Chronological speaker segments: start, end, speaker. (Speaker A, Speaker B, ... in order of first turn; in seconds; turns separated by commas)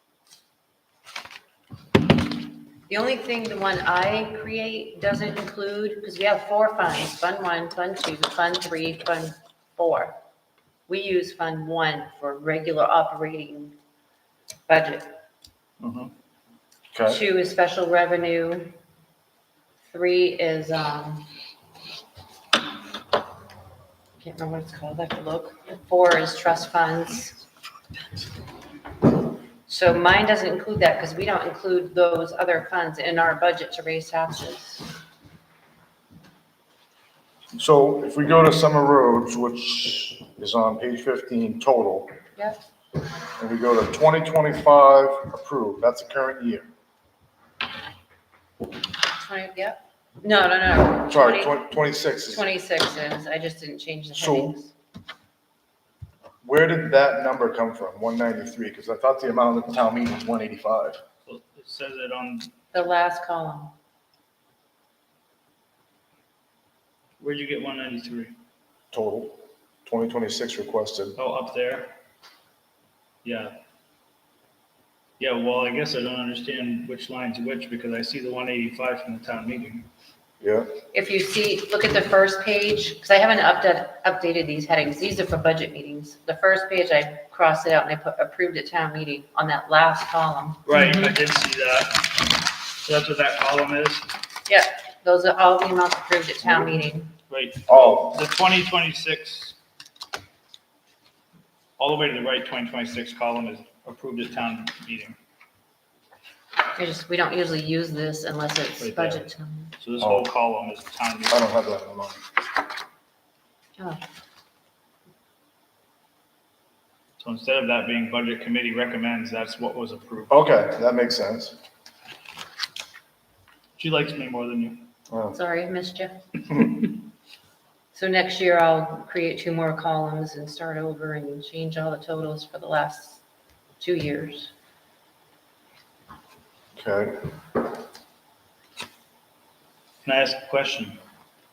Speaker A: 2.9-10.2, Speaker A: 10.9-13.7, Speaker A: 14.7-15.2, Speaker B: 15.8-16.1, Speaker B: 16.9-17.2, Speaker A: 17.1-18.7, Speaker A: 19.9-21.3, Speaker A: 24.2-27.4, Speaker A: 29.6-34.9, Speaker B: 37.5-42.1, Speaker B: 43.4-46.7, Speaker A: 49.1-54.7, Speaker B: 51.1-52.5, Speaker B: 54.1-54.6, Speaker B: 56.4-61.0, Speaker C: 61.2-62.5, Speaker A: 62.7-63.7, Speaker C: 67.2-68.3, Speaker B: 68.9-71.2, Speaker C: 71.2-71.9, Speaker C: 73.2-73.5, Speaker C: 75.2-79.9, Speaker B: 80.4-80.7, Speaker A: 80.9-90.7, Speaker C: 90.7-94.1, Speaker A: 94.5-97.1, Speaker C: 97.3-99.5, Speaker B: 97.7-98.2, Speaker C: 101.8-105.2, Speaker A: 106.8-109.7, Speaker C: 108.8-109.2, Speaker C: 109.8-111.5, Speaker B: 110.0-110.3, Speaker B: 111.3-112.3, Speaker C: 117.2-120.3, Speaker B: 120.3-121.6, Speaker C: 123.8-124.8, Speaker B: 125.1-125.3, Speaker A: 125.3-126.7, Speaker A: 127.9-133.2, Speaker A: 133.8-134.5, Speaker B: 136.8-137.3, Speaker C: 140.0-141.0